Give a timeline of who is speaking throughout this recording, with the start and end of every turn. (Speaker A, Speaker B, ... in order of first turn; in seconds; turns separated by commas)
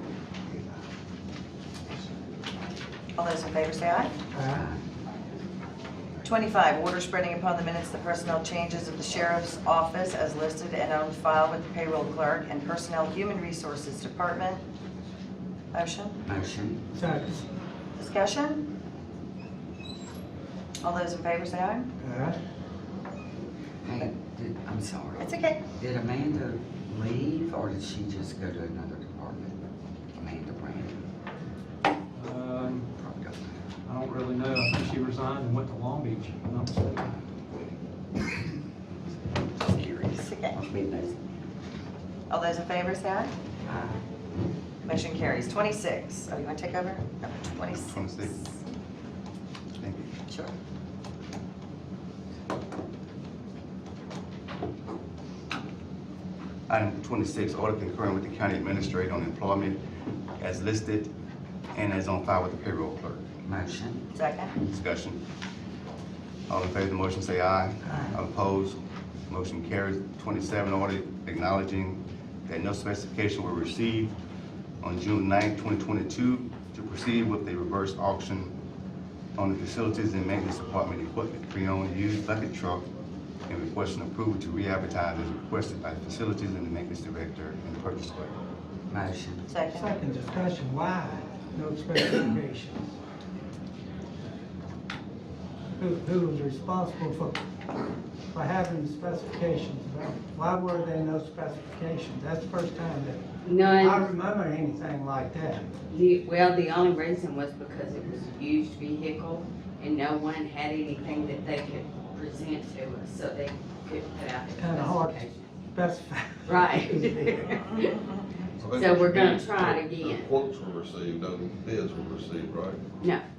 Speaker A: 3.1-4.1, Speaker B: 4.3-4.6, Speaker C: 4.5-4.8, Speaker A: 6.2-14.6, Speaker A: 15.7-16.2, Speaker C: 16.2-16.9, Speaker B: 17.0-17.4, Speaker A: 17.9-18.6, Speaker A: 20.8-21.9, Speaker B: 22.0-22.4, Speaker C: 23.8-29.5, Speaker A: 25.2-25.6, Speaker C: 30.1-31.0, Speaker D: 32.1-32.9, Speaker C: 33.0-33.6, Speaker D: 33.9-37.1, Speaker A: 39.6-40.6, Speaker C: 40.5-41.2, Speaker A: 42.3-43.3, Speaker C: 43.7-44.0, Speaker A: 44.9-48.5, Speaker E: 47.7-48.4, Speaker E: 49.8-50.1, Speaker E: 56.7-59.8, Speaker E: 60.4-61.1, Speaker E: 61.7-63.2, Speaker C: 63.4-64.0, Speaker A: 64.1-64.5, Speaker E: 64.6-65.2, Speaker E: 66.5-74.1, Speaker B: 67.9-68.1, Speaker E: 74.8-78.5, Speaker E: 79.3-82.8, Speaker E: 83.5-88.3, Speaker C: 88.9-89.4, Speaker A: 89.5-90.0, Speaker B: 89.7-92.9, Speaker B: 95.8-97.4, Speaker B: 98.3-105.7, Speaker F: 103.4-104.1, Speaker F: 105.9-115.4, Speaker B: 114.6-117.6, Speaker F: 116.5-117.9, Speaker G: 118.6-122.8, Speaker F: 118.7-120.3